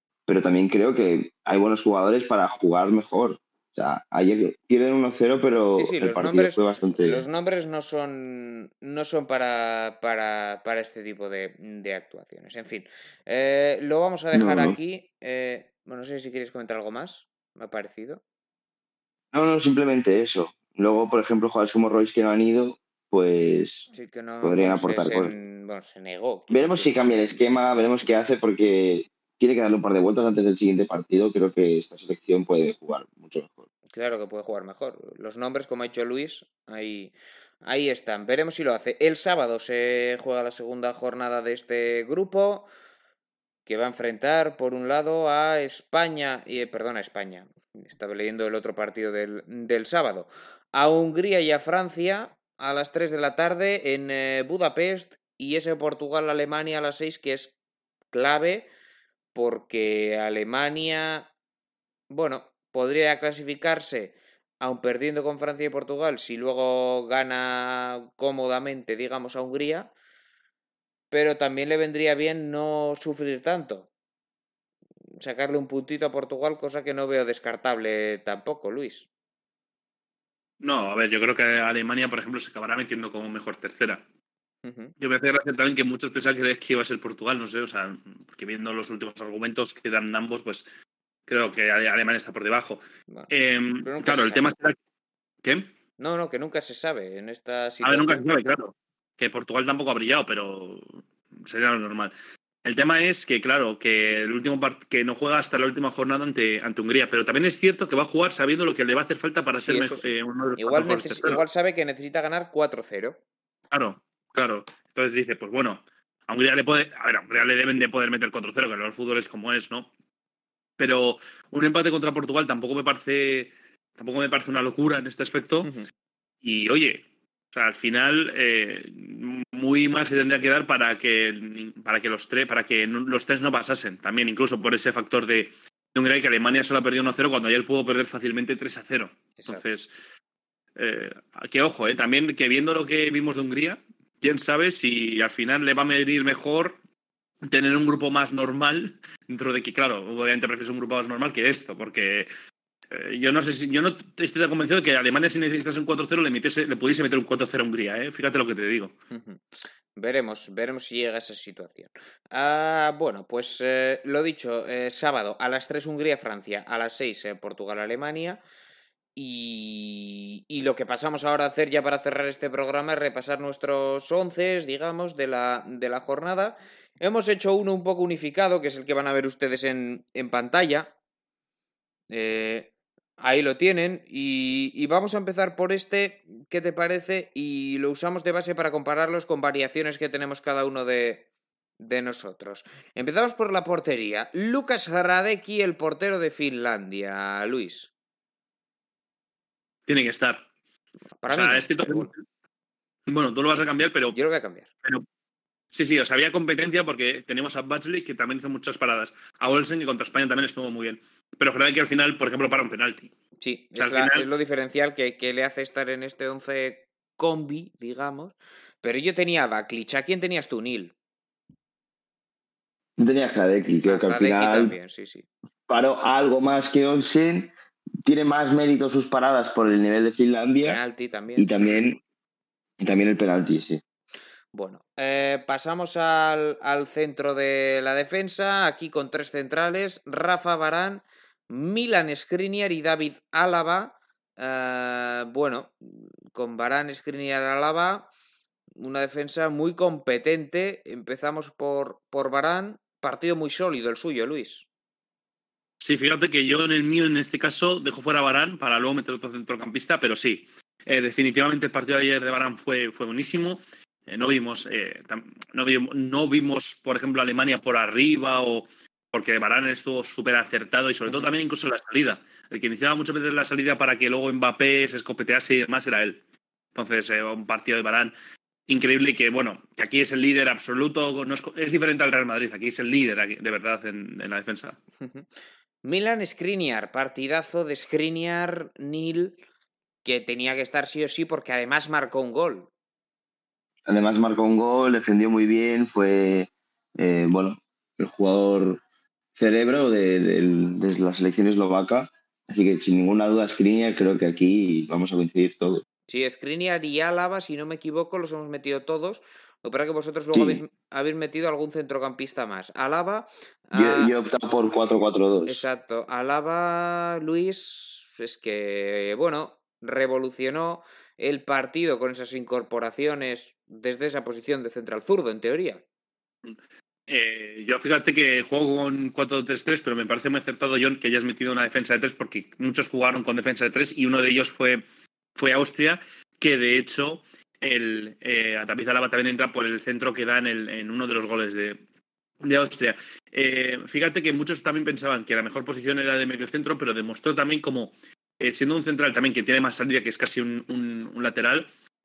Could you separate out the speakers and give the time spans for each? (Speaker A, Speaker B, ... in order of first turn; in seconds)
Speaker A: 0.3-7.3, 14.3-14.8, 19.3-23.9, 24.4-25.3, 26.5-33.6, 223.0-224.8, 225.7-227.5, 228.0-230.8, 231.4-232.0, 232.8-233.8, 293.9-298.8, 299.4-305.8, 310.3-310.6, 313.7-315.6
Speaker B: 5.8-18.2, 23.9-27.4, 33.9-42.7, 43.7-57.5, 58.1-58.7, 59.3-61.3, 62.1-69.9, 71.1-73.9, 75.2-79.1, 84.6-84.9, 93.8-94.5, 96.0-98.2, 109.7-113.2, 159.1-168.4, 169.2-180.9, 182.1-191.3, 191.8-197.9, 201.2-202.1, 204.1-204.7, 213.4-220.9, 223.8-225.3, 230.6-231.8, 234.5-248.1, 248.8-254.7, 285.0-285.3, 285.8-289.4, 290.0-292.7, 306.1-314.1, 315.5-325.8
Speaker C: 80.6-84.0, 85.0-90.7, 91.3-94.8, 95.4-95.7, 97.8-102.1, 102.6-111.4, 113.7-119.9, 120.8-125.7, 126.4-140.0, 140.8-146.8, 147.5-152.3, 152.9-158.9, 199.9-200.4, 201.3-202.2, 203.1-204.2, 205.7-213.1, 213.8-214.3, 255.8-276.2, 276.8-278.1, 278.7-284.8, 327.1-334.8, 335.4-341.8, 342.4-351.7